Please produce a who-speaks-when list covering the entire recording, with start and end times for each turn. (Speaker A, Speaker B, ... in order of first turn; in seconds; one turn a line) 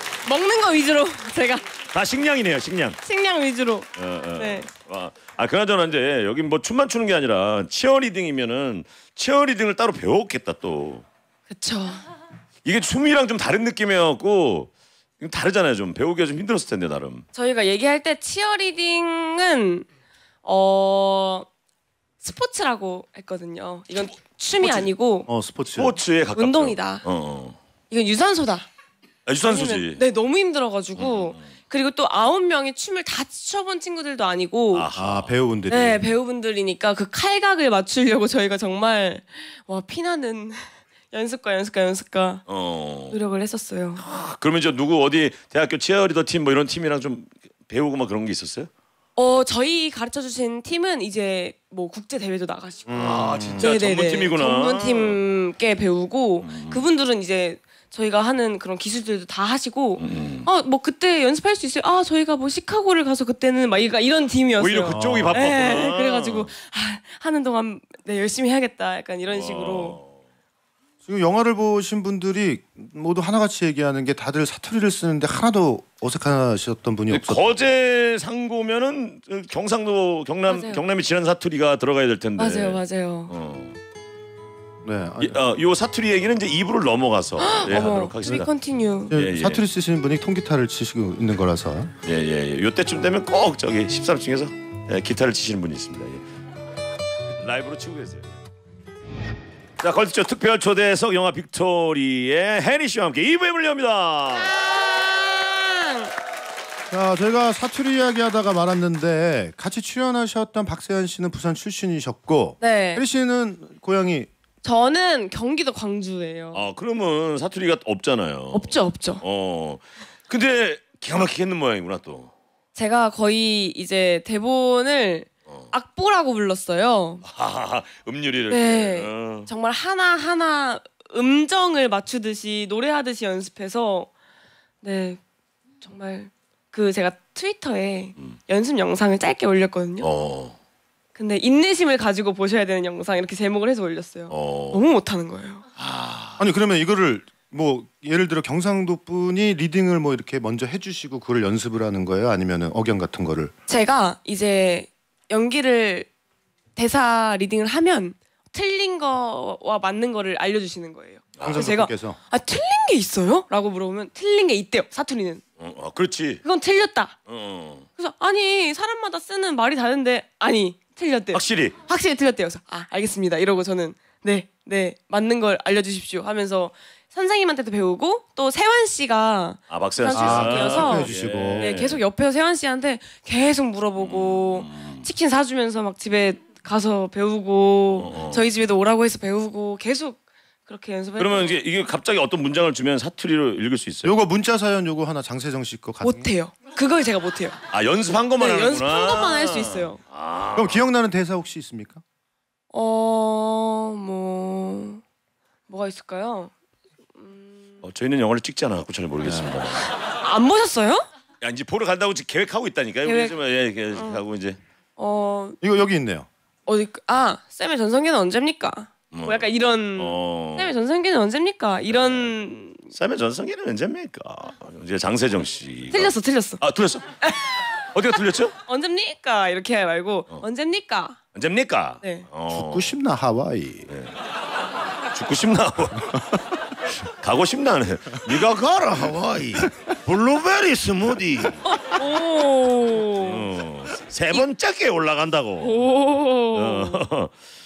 Speaker A: 0.2-1.6
Speaker B: 1.9-3.0
Speaker A: 3.0-4.7
Speaker B: 4.0-11.1
Speaker A: 11.5-12.0
Speaker B: 12.7-17.3
Speaker A: 17.3-19.9
Speaker A: 20.4-21.5
Speaker A: 22.2-25.3
Speaker C: 25.3-26.0
Speaker B: 25.7-27.6
Speaker A: 26.4-27.1
Speaker A: 27.9-28.7
Speaker B: 29.3-30.0
Speaker A: 29.4-34.9
Speaker B: 31.0-31.4
Speaker B: 34.7-35.3
Speaker C: 35.0-36.1
Speaker A: 35.7-42.4
Speaker B: 42.5-43.2
Speaker A: 43.1-44.0
Speaker B: 44.0-48.7
Speaker A: 49.2-70.0
Speaker C: 52.9-53.7
Speaker B: 53.0-55.2
Speaker B: 56.4-56.8
Speaker B: 60.0-60.5
Speaker B: 64.6-66.5
Speaker C: 64.9-65.8
Speaker B: 69.3-70.1
Speaker C: 71.0-77.6
Speaker B: 77.1-83.8
Speaker A: 80.5-80.8
Speaker A: 82.4-83.3
Speaker C: 84.8-85.4
Speaker B: 85.2-88.5
Speaker A: 87.4-89.1
Speaker B: 89.1-89.6
Speaker C: 89.1-91.9
Speaker B: 92.0-96.2
Speaker B: 97.4-98.2
Speaker B: 99.8-104.5
Speaker A: 104.5-106.1
Speaker C: 106.9-114.3
Speaker A: 112.6-113.0
Speaker A: 114.6-116.6
Speaker B: 116.5-122.3
Speaker A: 118.5-119.2
Speaker A: 122.8-127.2
Speaker B: 127.2-129.5
Speaker A: 128.5-134.1
Speaker A: 134.8-135.2
Speaker A: 135.8-140.1
Speaker B: 140.0-140.6
Speaker A: 141.2-145.6
Speaker B: 144.3-144.8
Speaker B: 145.8-146.4
Speaker C: 146.4-153.5
Speaker A: 153.7-156.1
Speaker A: 156.8-165.4
Speaker C: 161.4-162.2
Speaker B: 165.6-166.4
Speaker A: 166.4-167.2
Speaker B: 167.3-167.9
Speaker A: 168.0-191.6
Speaker B: 171.3-171.8
Speaker B: 179.7-182.0
Speaker C: 180.1-181.9
Speaker B: 184.0-185.1
Speaker B: 188.0-188.4
Speaker B: 191.2-194.2
Speaker C: 194.0-196.3
Speaker A: 196.0-197.6
Speaker B: 197.7-200.8
Speaker A: 198.4-200.0
Speaker C: 200.6-202.0
Speaker A: 202.7-205.0
Speaker A: 205.7-206.5
Speaker A: 207.2-207.8
Speaker B: 207.8-209.9
Speaker C: 209.2-209.6
Speaker A: 210.0-211.1
Speaker B: 211.4-214.6
Speaker A: 213.1-213.3
Speaker A: 213.9-214.2
Speaker A: 215.0-215.6
Speaker C: 215.6-216.3
Speaker A: 216.7-222.9
Speaker B: 219.1-220.7
Speaker B: 221.9-222.3
Speaker B: 222.9-227.2
Speaker A: 225.9-226.6
Speaker A: 227.2-227.7
Speaker B: 227.9-228.6
Speaker A: 228.7-231.2
Speaker B: 231.3-232.9
Speaker C: 232.5-233.9
Speaker B: 233.9-234.1
Speaker B: 235.1-236.4
Speaker B: 237.0-241.7
Speaker A: 241.7-243.5
Speaker B: 243.2-245.8
Speaker A: 245.6-247.0
Speaker B: 246.5-247.3